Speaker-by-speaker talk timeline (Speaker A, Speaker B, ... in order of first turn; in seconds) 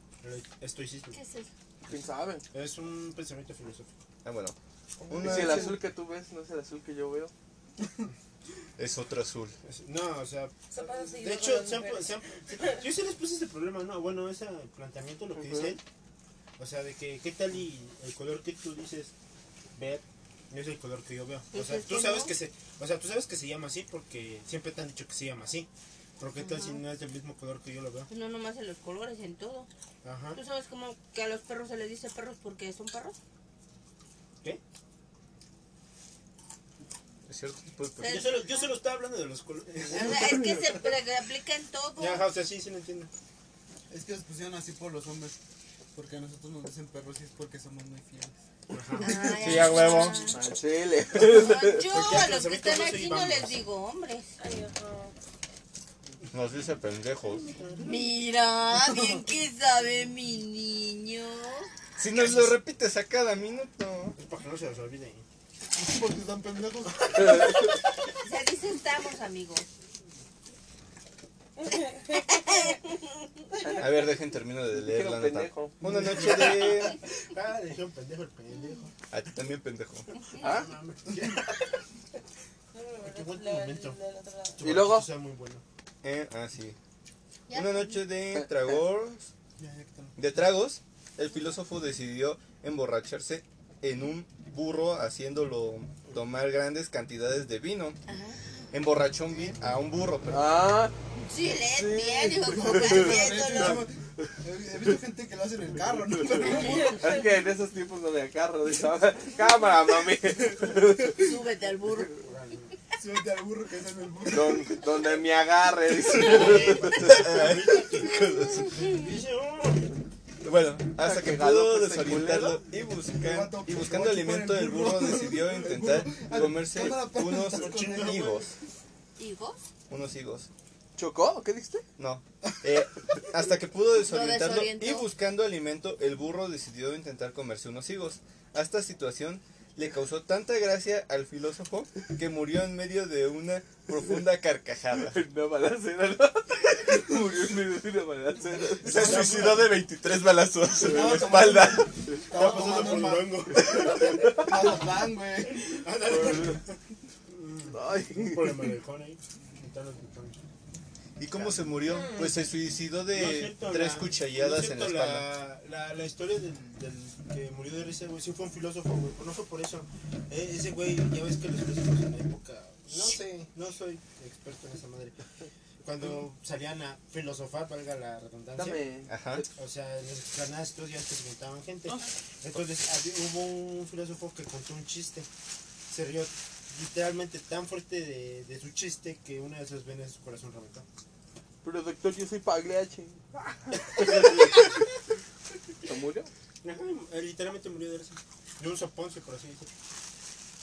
Speaker A: 0.2-1.2, 2.5-3.9, 9.6-15.8, 16.6-19.1, 19.7-28.1, 30.0-30.4, 38.1-40.6, 42.0-43.1, 48.7-49.6, 51.9-53.6, 57.5-58.1, 62.1-62.5, 64.1-65.2, 75.8-78.9, 80.4-81.7, 83.0-84.0, 84.5-85.6, 112.1-112.7, 116.1-120.0, 127.4-128.4, 148.9-149.7, 152.3-154.4, 155.7-156.7, 157.3-160.4, 163.1-175.2, 175.8-178.8, 179.5-185.3, 185.9-190.8, 194.0-194.3, 196.6-199.7
Speaker B: 1.1-1.5, 21.5-22.3, 26.4-26.8, 28.1-29.7, 30.3-33.2, 38.0-38.6, 39.9-42.2, 49.0-50.4, 51.2-54.3, 57.8-61.7, 68.2-69.7, 72.3-72.8, 78.5-78.8, 87.5-88.0, 98.1-98.4, 101.2-103.9, 111.1-112.2, 129.2-129.6, 134.0-135.1
Speaker C: 1.9-2.4, 5.2-7.3, 15.3-15.8, 50.2-51.9, 67.2-67.5, 73.6-73.9, 74.8-75.7, 80.4-80.7, 84.6-85.1, 88.3-88.8, 100.3-100.9, 101.7-103.8, 106.2-111.2, 114.3-117.2, 121.0-122.6, 130.9-131.8, 145.1-149.2, 156.1-156.6, 157.7-158.7, 178.6-179.5, 191.6-194.7, 195.8-196.3
Speaker D: 4.2-4.5, 5.1-5.8, 8.8-9.6, 37.2-38.2, 49.2-50.2, 56.3-57.5, 62.0-64.2, 73.8-77.0, 79.1-80.1, 86.0-86.8, 87.5-89.3, 90.2-98.0, 98.7-100.5, 116.9-119.0, 120.4-128.5, 129.9-130.5, 132.0-145.2, 148.8-151.9, 161.2-165.4, 179.1-179.4
Speaker E: 10.7-12.8, 54.4-55.1, 71.6-72.7, 82.7-84.6, 106.6-107.1
Speaker F: 43.9-45.4, 45.9-48.3, 65.7-67.7, 89.6-90.3, 102.5-107.0, 113.0-114.8, 123.1-128.4, 148.8-149.7, 150.8-153.5, 154.1-155.8